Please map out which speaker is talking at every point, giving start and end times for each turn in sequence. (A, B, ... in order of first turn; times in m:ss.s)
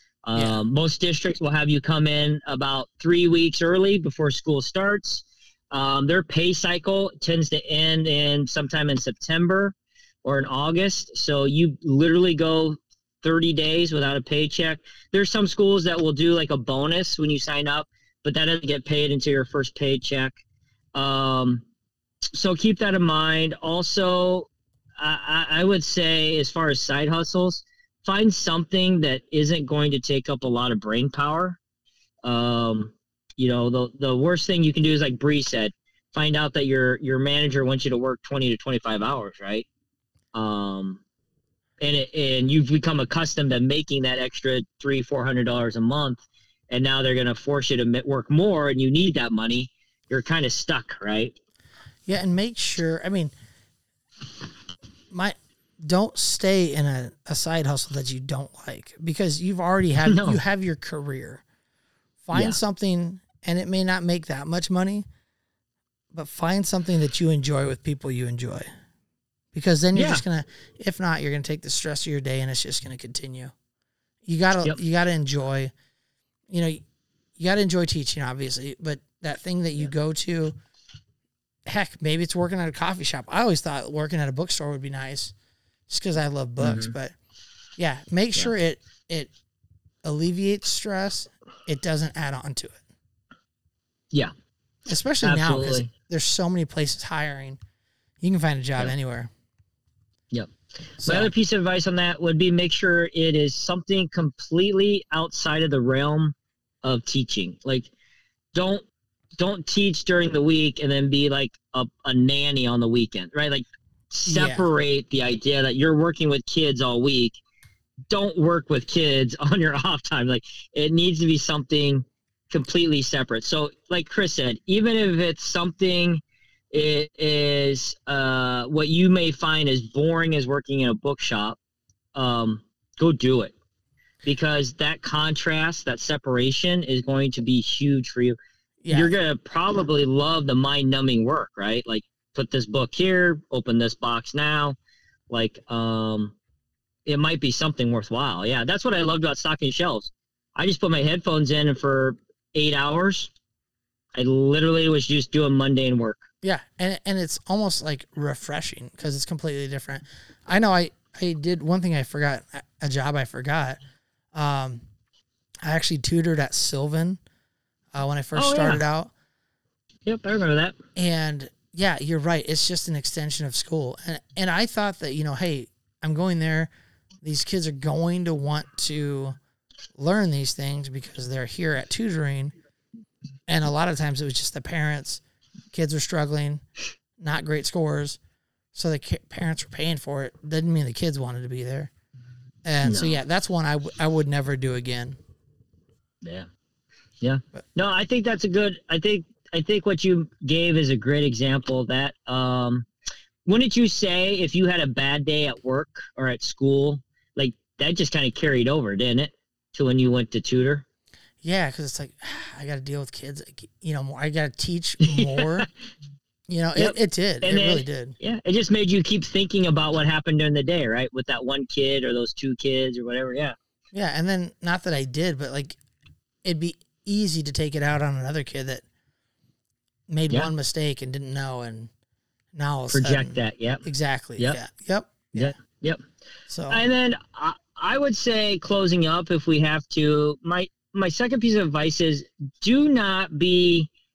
0:00.2-0:20.4 A
0:00.3-0:00.6 B
0:20.9-0:21.6 A
0:22.3-0:31.6 A
0:32.2-0:39.6 A
0:40.3-0:41.0 A
0:41.8-0:51.4 A
0:52.0-0:53.3 B
0:55.1-1:01.4 B
1:00.0-1:00.4 A
1:02.2-1:05.1 B
1:02.3-1:02.6 A
1:06.1-1:08.7 B
1:09.5-1:13.5 B
1:09.9-1:10.2 A
1:14.2-1:15.7 B
1:16.5-1:16.8 B
1:17.4-1:20.5 B
1:21.6-1:25.3 B
1:25.9-1:27.1 B
1:26.6-1:26.9 A
1:27.8-1:29.3 B
1:30.0-1:32.8 B
1:34.9-1:37.6 B
1:35.2-1:35.9 A
1:38.2-1:39.3 B
1:41.0-1:41.3 B
1:41.0-1:47.9 A
1:48.5-1:48.8 A
1:49.4-1:57.4 A
1:54.2-1:54.6 B
1:58.1-2:11.6 A
2:12.1-2:13.5 A
2:14.2-2:18.4 A
2:18.8-2:19.1 B
2:18.9-2:24.8 A
2:25.3-2:26.3 A
2:27.0-2:33.3 A
2:34.1-2:36.3 A
2:36.4-2:43.8 B
2:44.3-2:44.8 B
2:45.6-2:47.2 B
2:47.9-2:49.1 B
2:48.3-2:48.8 A
2:50.0-2:50.8 A
2:51.0-2:56.7 B
2:57.2-2:59.4 B
3:00.0-3:02.5 B
3:03.5-3:05.2 B
3:05.7-3:06.6 B
3:07.2-3:08.2 B
3:08.7-3:11.9 B
3:12.6-3:15.2 B
3:12.8-3:13.2 A
3:16.2-3:16.5 A
3:17.2-3:22.8 A
3:23.4-3:30.8 A
3:31.4-3:35.7 B
3:35.0-3:35.6 A
3:36.5-3:38.2 B
3:36.8-3:43.5 A
3:43.9-3:45.8 B
3:46.4-3:48.8 B
3:50.1-3:51.9 B
3:52.5-3:55.6 B
3:52.9-3:53.8 A
3:55.4-3:56.0 A
3:56.5-3:56.8 B
3:56.7-4:03.9 A